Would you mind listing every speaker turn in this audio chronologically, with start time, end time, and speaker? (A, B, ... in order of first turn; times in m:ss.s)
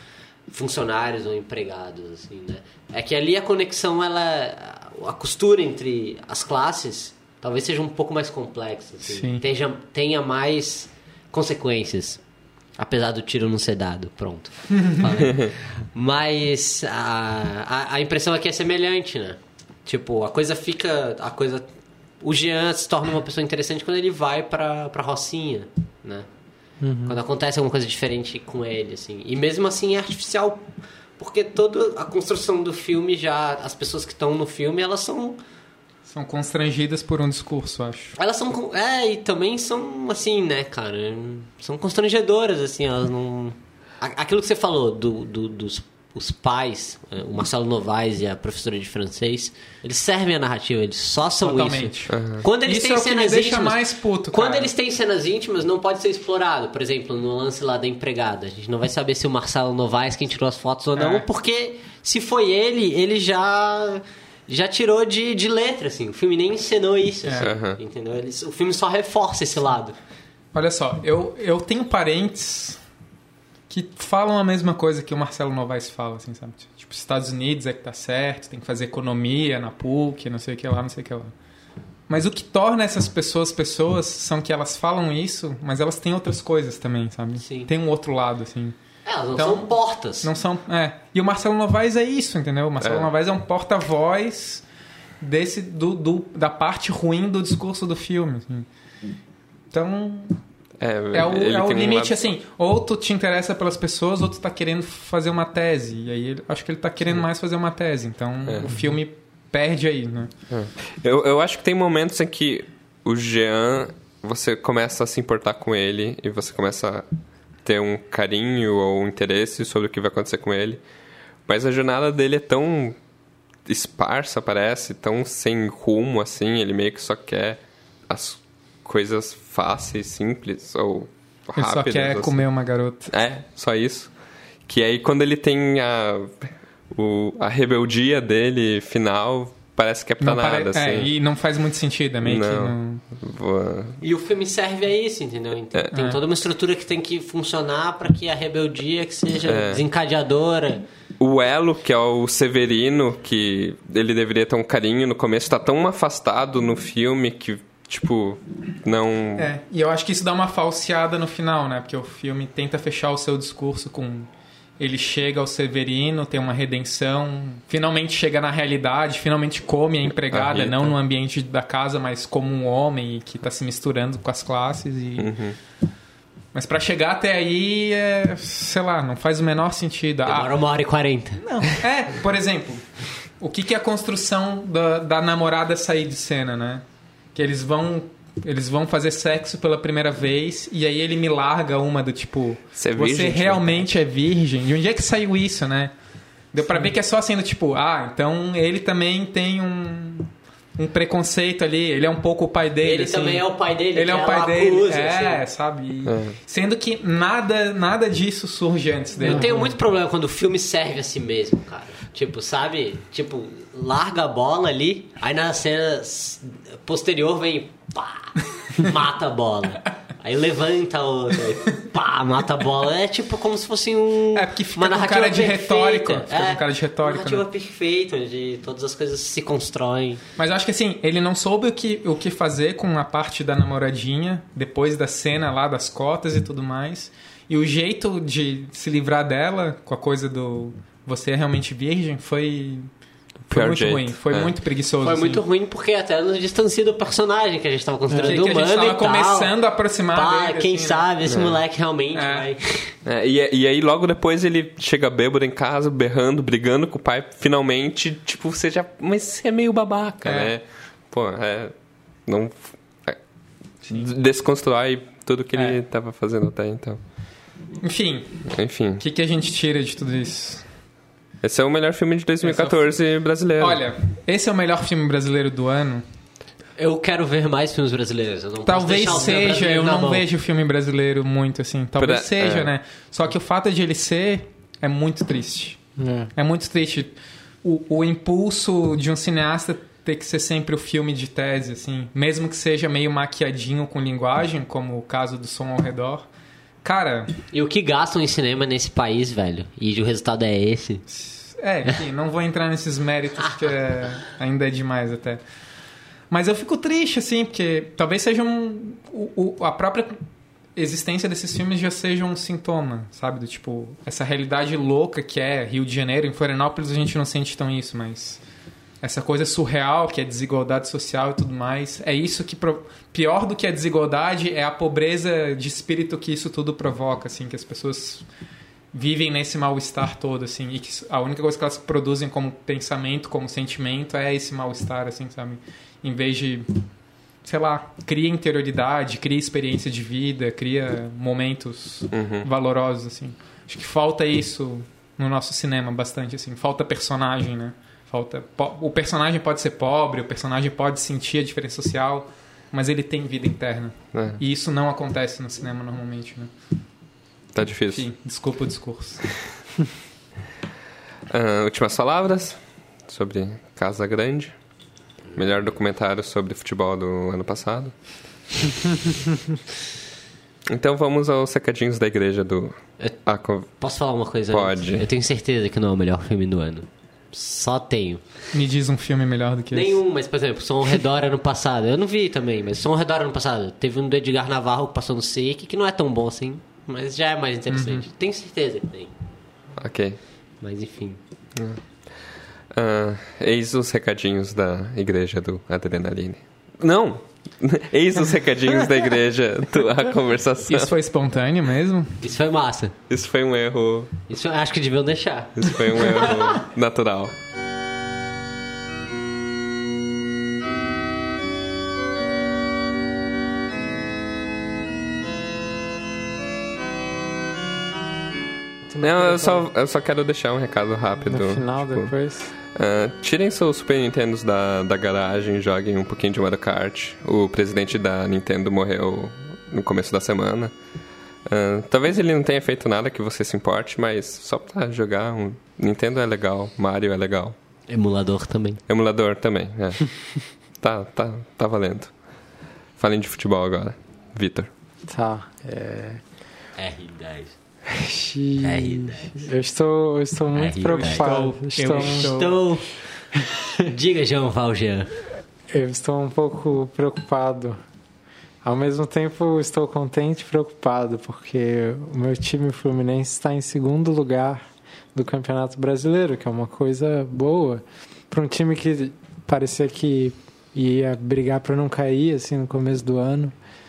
0:00.5-0:12.2 A
0:09.0-0:09.4 B
0:12.8-0:21.7 A
0:22.2-0:26.3 A
0:26.8-0:27.2 C
0:27.0-0:30.6 A
0:31.2-0:35.4 A
0:36.0-0:38.1 B
0:38.2-1:10.0 A
0:51.4-0:54.7 B
0:52.1-0:52.4 D
1:00.9-1:01.2 B
1:07.2-1:07.5 B
1:07.4-1:07.8 D
1:10.5-1:12.8 B
1:13.7-1:21.3 B
1:22.1-1:28.8 B
1:27.4-1:27.7 A
1:29.0-1:30.3 A
1:29.3-1:29.7 B
1:30.2-1:34.6 B
1:32.8-1:33.1 D
1:35.2-1:38.7 B
1:39.7-1:40.4 B
1:40.8-1:42.2 D
1:41.1-1:50.3 B
1:48.4-1:48.8 D
1:50.5-1:57.0 D
1:57.6-2:00.8 D
2:01.4-2:03.0 D
2:03.6-2:12.4 D
2:11.6-2:13.1 B
2:13.1-2:14.1 D
2:14.7-2:21.1 D
2:20.2-2:23.0 B
2:22.2-2:24.0 D
2:24.0-2:30.8 A
2:25.9-2:26.2 B
2:29.4-2:29.8 D
2:31.2-2:39.5 D
2:39.4-2:55.3 B
2:50.3-2:51.0 D
2:55.2-2:55.6 D
2:56.5-3:00.5 B
3:00.2-3:01.8 A
3:01.4-3:15.9 B
3:12.8-3:13.9 D
3:16.5-3:29.7 B
3:22.8-3:25.4 A
3:26.0-3:26.3 D
3:29.2-3:50.2 A
3:29.2-3:29.6 C
3:44.3-3:47.4 B
3:50.4-4:02.9 B
4:03.5-4:05.4 B
4:03.5-4:04.5 D
4:05.0-4:09.5 A
4:08.1-4:08.4 C
4:08.2-4:11.1 B
4:10.1-4:13.0 A
4:11.2-4:11.6 D
4:12.1-4:12.5 B
4:13.0-4:21.7 D
4:20.2-4:20.5 B
4:22.2-4:23.2 D
4:23.9-4:27.0 D
4:25.5-4:25.8 B
4:27.8-4:30.6 B
4:28.5-4:29.0 D
4:31.4-4:33.8 D
4:32.4-4:32.9 B
4:33.6-4:36.0 B
4:36.8-4:40.2 A
4:38.6-4:45.8 B
4:42.0-4:42.7 D
4:46.0-4:46.3 C
4:46.4-4:56.3 B
4:56.8-4:57.3 B
4:57.5-5:01.0 A
5:01.1-5:05.4 B
5:06.3-5:10.2 B
5:10.8-5:18.4 B
5:19.0-5:28.2 B
5:28.9-5:36.8 B
5:37.4-5:56.5 B
5:42.1-5:42.5 D
5:54.1-5:54.4 D
5:57.5-5:58.0 D
5:57.9-5:59.3 B
6:01.3-6:04.6 D
6:05.3-6:07.9 D
6:10.7-6:13.8 D
6:13.8-6:18.2 A
6:14.5-6:15.1 D
6:18.5-6:20.0 B
6:19.7-6:29.1 A
6:27.7-6:28.1 B
6:29.8-6:30.2 D
6:30.6-6:31.2 A
6:31.6-6:31.8 D
6:32.7-6:40.9 D
6:40.7-6:42.2 B
6:42.2-6:42.9 A
6:43.1-6:44.1 D
6:44.3-6:46.6 A
6:45.6-6:47.3 D
6:58.9-6:59.7 C
6:59.0-7:02.1 D
7:01.2-7:02.5 C
7:02.7-7:10.7 D
7:11.4-7:17.6 D
7:17.9-7:18.8 A
7:18.9-7:22.1 D
7:23.0-7:24.7 D
7:25.1-7:26.2 C
7:26.8-7:27.6 A
7:27.9-7:32.3 C
7:28.6-7:29.5 A
7:30.5-7:31.3 A
7:30.8-7:32.6 B
7:31.9-7:32.9 A
7:33.8-7:35.1 A
7:35.7-7:37.8 C
7:38.6-7:44.6 C
7:45.1-7:53.5 C